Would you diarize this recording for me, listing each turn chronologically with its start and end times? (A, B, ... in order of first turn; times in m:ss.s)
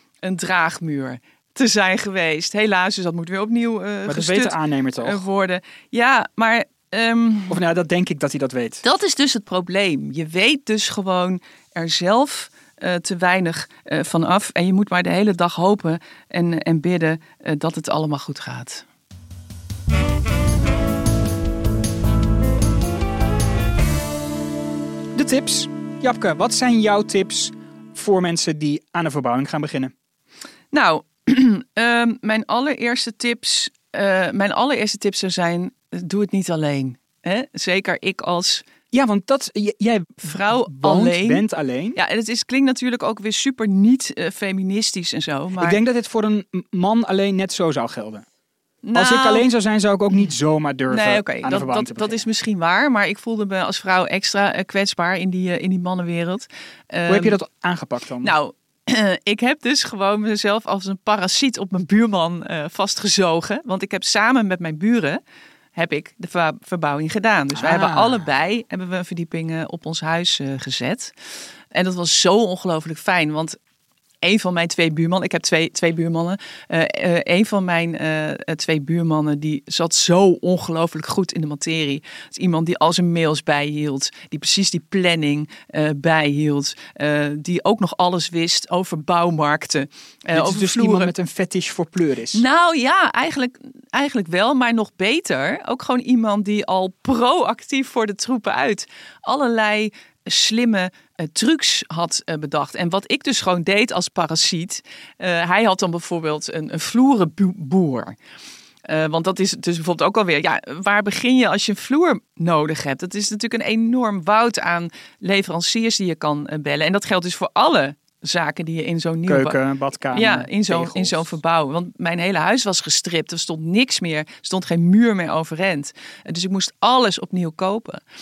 0:00.2-0:07.6 A
0:04.1-0:05.2 B
0:07.5-0:08.8 B
0:08.8-0:18.8 A
0:25.2-0:29.9 B
0:30.7-0:38.6 A
0:38.9-0:42.0 B
0:40.2-0:41.4 A
0:42.0-0:45.8 A
0:45.6-0:48.2 B
0:48.8-0:49.4 A
0:49.0-0:52.3 B
0:50.9-0:57.4 A
0:57.1-0:58.3 B
0:58.2-1:05.2 A
1:05.8-1:11.1 A
1:07.6-1:08.3 B
1:11.7-1:13.6 A
1:14.2-1:31.1 A
1:30.3-1:32.4 B
1:32.3-1:48.2 A
1:48.9-1:59.6 A
1:59.3-2:01.3 B
2:00.1-2:08.0 A